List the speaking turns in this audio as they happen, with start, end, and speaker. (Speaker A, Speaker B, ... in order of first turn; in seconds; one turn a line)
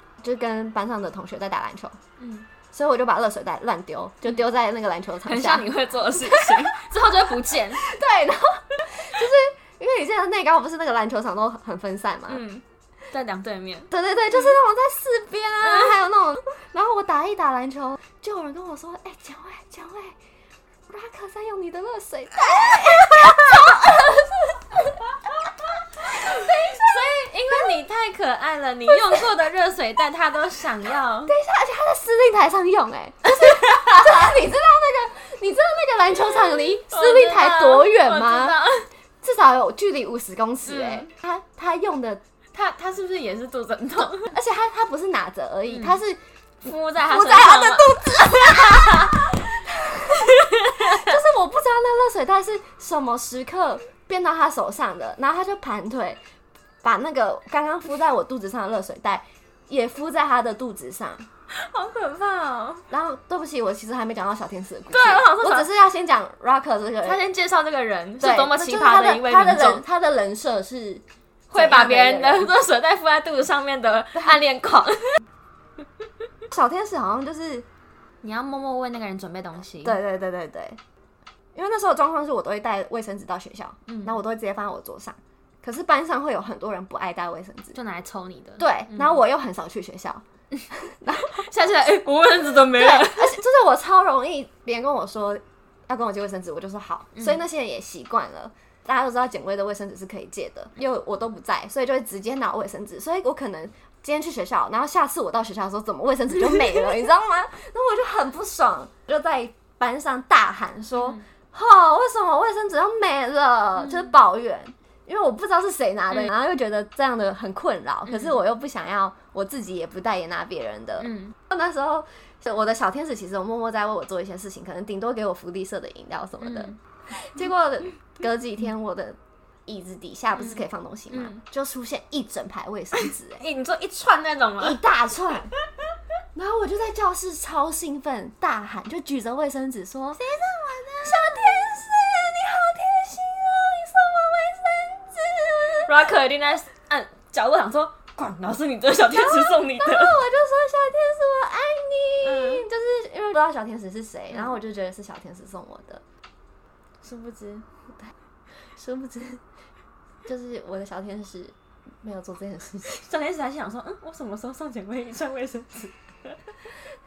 Speaker A: 0.2-2.0
Speaker B: 2.2-2.5
Speaker A: 2.7-5.7
Speaker B: 5.2-7.8
Speaker A: 6.2-6.8
Speaker A: 7.8-12.4
Speaker B: 12.3-13.9
Speaker A: 13.9-20.1
Speaker A: 20.9-25.0
Speaker A: 26.0-27.1
Speaker B: 26.1-31.3
Speaker A: 31.3-38.5
Speaker B: 36.9-38.9
Speaker A: 39.2-42.2
Speaker B: 40.6-41.1
Speaker B: 42.5-44.3
Speaker A: 44.3-46.2
Speaker B: 45.7-46.0
Speaker B: 46.6-49.4
Speaker A: 47.0-56.2
Speaker B: 50.4-51.0
Speaker A: 56.8-61.3
Speaker B: 61.5-62.8
Speaker A: 62.9-67.2
Speaker B: 64.9-65.7
Speaker B: 67.0-69.8
Speaker A: 68.2-72.5
Speaker B: 71.5-75.2
Speaker A: 76.5-77.7
Speaker B: 78.2-80.0
Speaker A: 79.8-80.8
Speaker A: 81.5-87.8
Speaker B: 83.9-84.1
Speaker B: 87.7-89.1
Speaker A: 88.6-91.5
Speaker B: 91.2-93.4
Speaker A: 92.7-133.4
Speaker B: 111.0-111.2
Speaker B: 113.8-114.1
Speaker B: 118.1-118.3
Speaker B: 121.0-121.3
Speaker B: 126.4-126.8
Speaker B: 131.1-131.4
Speaker B: 133.0-134.8
Speaker A: 134.6-135.5
Speaker A: 136.3-140.2
Speaker B: 140.2-141.4
Speaker A: 141.0-145.9
Speaker B: 145.8-150.2
Speaker A: 149.3-156.0
Speaker B: 152.2-152.7
Speaker B: 157.0-157.6
Speaker A: 158.7-159.4
Speaker A: 160.2-163.0
Speaker B: 163.0-166.4